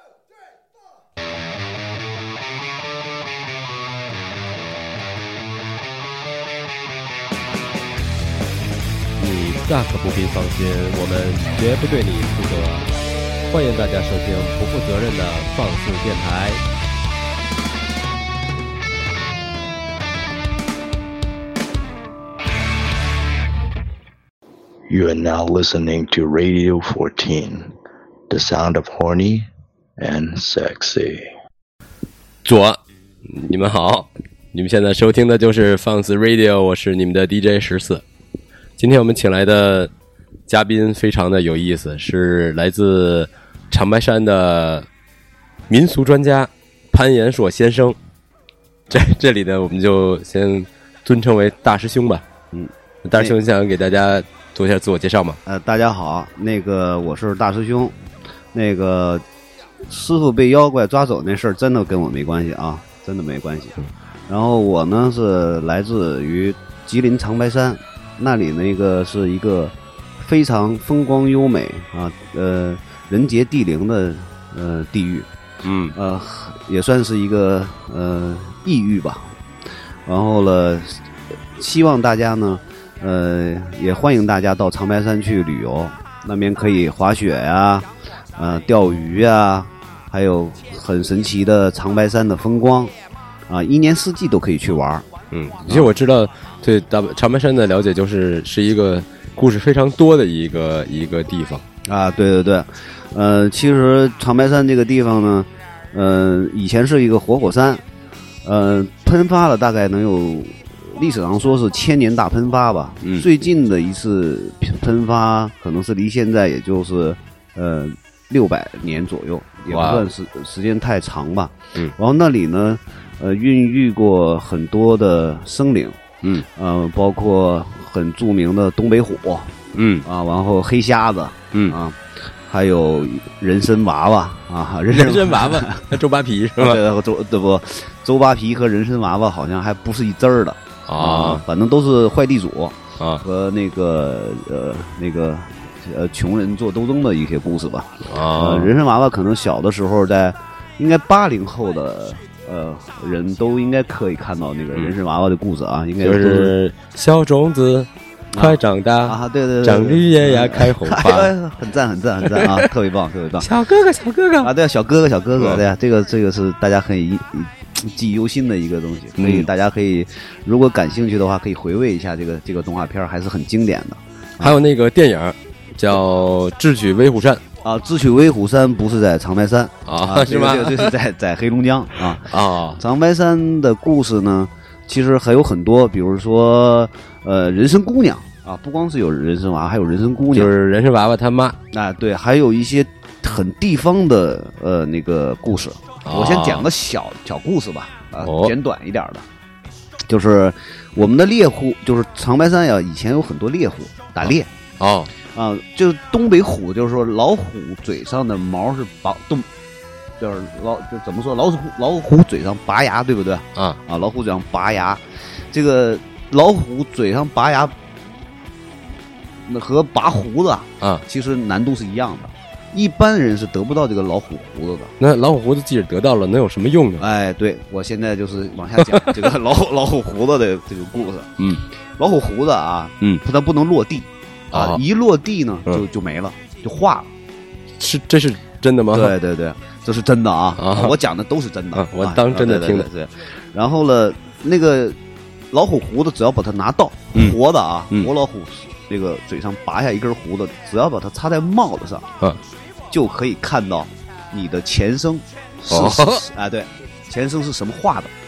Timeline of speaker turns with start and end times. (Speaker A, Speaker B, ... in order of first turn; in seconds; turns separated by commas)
Speaker A: 9.2-13.0, Speaker A: 13.5-16.6, Speaker B: 24.9-27.8, Speaker B: 28.3-31.3, Speaker A: 32.5-38.0, Speaker A: 38.8-39.9, Speaker A: 40.5-44.9, Speaker A: 45.7-48.0, Speaker A: 48.9-52.2, Speaker C: 52.5-53.4, Speaker A: 53.0-55.4, Speaker C: 55.5-58.0, Speaker C: 58.5-59.2, Speaker C: 59.8-75.3, Speaker A: 75.6-76.0, Speaker C: 75.9-79.4, Speaker C: 80.0-81.0, Speaker C: 81.6-92.9, Speaker C: 93.5-95.1, Speaker A: 95.3-101.6, Speaker C: 101.8-107.8, Speaker C: 108.5-126.0, Speaker A: 119.7-120.1, Speaker C: 126.5-135.9, Speaker A: 129.7-130.1, Speaker A: 134.9-136.8, Speaker C: 136.6-156.6, Speaker A: 140.9-141.4, Speaker A: 148.1-148.7, Speaker A: 156.0-161.3, Speaker C: 158.3-163.5, Speaker A: 162.2-162.7, Speaker A: 163.4-164.5, Speaker C: 164.4-174.6, Speaker A: 165.4-165.6, Speaker A: 169.2-169.5, Speaker A: 174.4-177.4, Speaker C: 177.6-190.5, Speaker A: 179.9-180.9, Speaker A: 182.2-182.8, Speaker A: 190.3-191.6, Speaker C: 191.7-199.2, Speaker A: 196.1-196.7, Speaker A: 198.2-198.5, Speaker C: 200.1-204.5, Speaker A: 204.2-205.1, Speaker C: 205.3-209.5, Speaker C: 210.2-217.8, Speaker C: 219.4-224.9, Speaker A: 225.0-227.0, Speaker C: 227.0-237.1, Speaker A: 228.8-229.2, Speaker A: 231.4-231.6, Speaker A: 234.5-234.8, Speaker A: 237.8-239.1, Speaker C: 238.9-245.0, Speaker A: 240.6-240.9, Speaker A: 241.7-242.9, Speaker C: 245.5-252.1, Speaker C: 252.9-258.1, Speaker A: 255.7-256.2